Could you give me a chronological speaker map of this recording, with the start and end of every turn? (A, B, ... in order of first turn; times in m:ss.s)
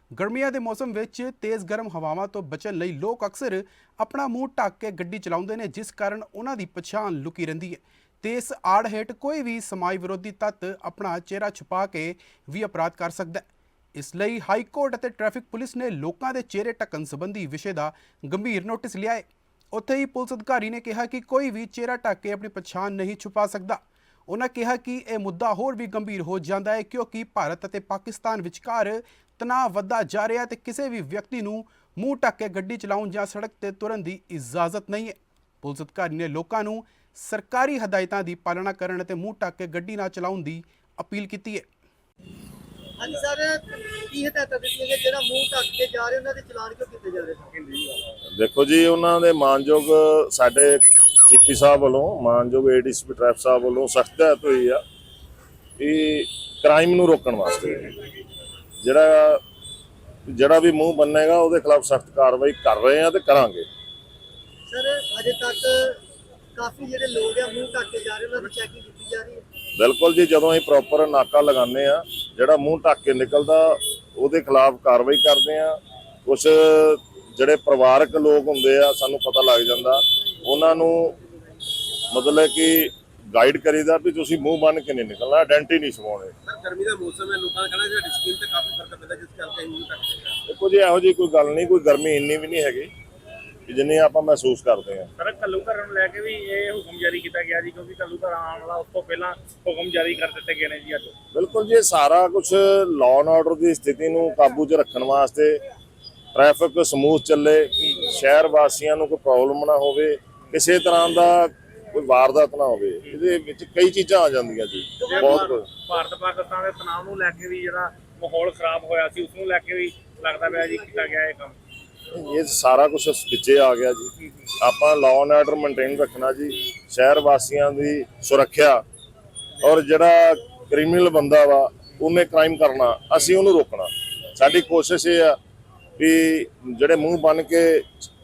0:00.2-0:41.7 A
0:43.0-0:48.0 B
0:48.4-0:54.8 C
0:55.8-0:58.0 C
0:58.8-0:59.4 C
1:00.3-1:03.7 C
1:04.7-1:06.0 B
1:06.6-1:09.4 B
1:09.8-1:21.2 C
1:22.1-1:26.3 C
1:26.5-1:30.4 D
1:30.5-1:32.9 C
1:33.7-1:35.1 C
1:35.2-1:41.1 E
1:41.3-1:45.6 C
1:46.3-1:55.7 C
1:55.0-2:01.6 E
1:55.0-1:55.5 B
2:02.1-2:08.8 C
2:09.6-2:15.4 C
2:16.0-2:17.9 C